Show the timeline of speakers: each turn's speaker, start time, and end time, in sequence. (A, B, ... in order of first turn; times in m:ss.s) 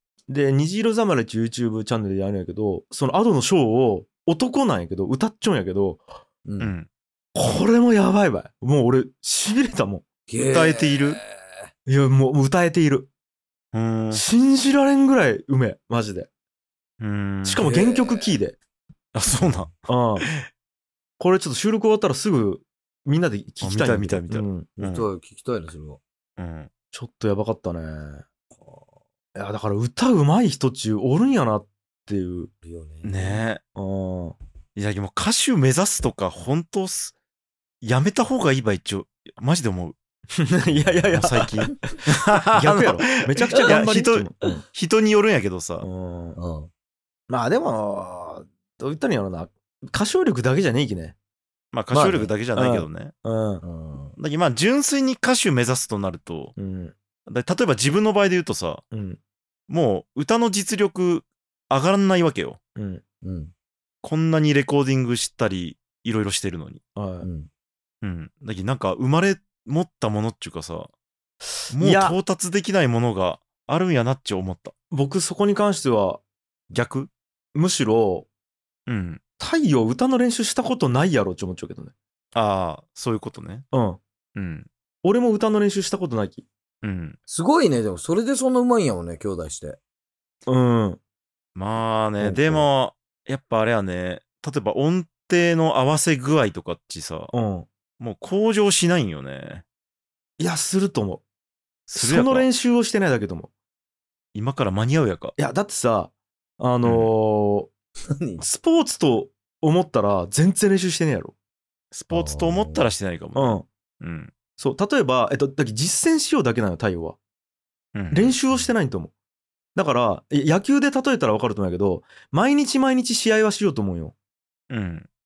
0:00.3-0:06.0 A
0:06.4-0:06.7 B
0:06.6-0:06.9 C
0:07.3-0:10.0 A
0:10.3-0:11.7 B
0:10.5-0:11.2 C
0:11.9-0:13.1 A
0:13.7-0:14.2 C
0:14.1-0:16.3 A
0:17.0-0:17.6 C
0:17.4-0:18.6 A
0:17.6-0:18.4 B
0:19.1-0:20.5 C
0:19.3-0:19.7 B
0:19.9-0:20.3 A
0:21.2-0:24.7 A
0:23.6-0:25.1 C
0:24.8-0:26.0 B
0:26.4-0:26.7 C
0:26.9-0:28.2 A
0:28.5-0:29.0 B
0:29.3-0:32.5 A
0:32.6-0:33.4 B
0:33.0-0:33.6 C
0:33.7-0:34.4 A
0:34.8-0:37.1 C
0:37.8-0:40.0 C
0:40.3-0:44.5 A
0:41.1-0:45.8 C
0:45.8-0:46.4 A
0:46.4-0:46.7 B
0:47.3-0:51.2 A
0:51.7-0:53.1 C
0:51.9-0:52.3 B
0:52.5-0:53.6 A
0:53.6-0:54.2 B
0:54.2-0:56.5 C
0:56.6-0:57.0 A
0:57.2-0:58.8 C
0:58.9-0:59.2 A
0:59.7-1:02.6 C
1:02.8-1:03.0 A
1:03.2-1:03.5 B
1:04.0-1:06.8 C
1:07.0-1:07.3 A
1:07.2-1:07.5 B
1:08.0-1:10.9 C
1:11.7-1:12.2 A
1:11.7-1:14.7 C
1:14.9-1:16.2 A
1:16.7-1:17.1 C
1:17.5-1:18.3 A
1:18.9-1:19.2 C
1:19.4-1:21.9 A
1:22.3-1:23.6 C
1:23.7-1:24.0 A
1:24.3-1:24.7 C
1:25.0-1:26.4 A
1:26.8-1:27.2 C
1:27.3-1:29.8 B
1:30.5-1:31.0 A
1:31.5-1:37.3 C
1:32.2-1:32.6 A
1:37.3-1:37.7 A
1:38.0-1:39.6 C
1:40.4-1:41.2 A
1:41.9-1:42.5 C
1:41.9-1:43.5 A
1:44.3-1:45.4 C
1:45.4-1:47.7 A
1:46.8-1:47.1 C
1:48.0-1:48.4 B
1:48.4-1:51.3 A
1:51.9-1:54.3 C
1:52.1-1:52.8 B
1:53.3-1:53.7 A
1:54.6-1:57.2 A
1:57.9-1:58.3 C
1:58.1-1:59.1 A
1:59.7-2:04.1 A
2:04.7-2:05.1 C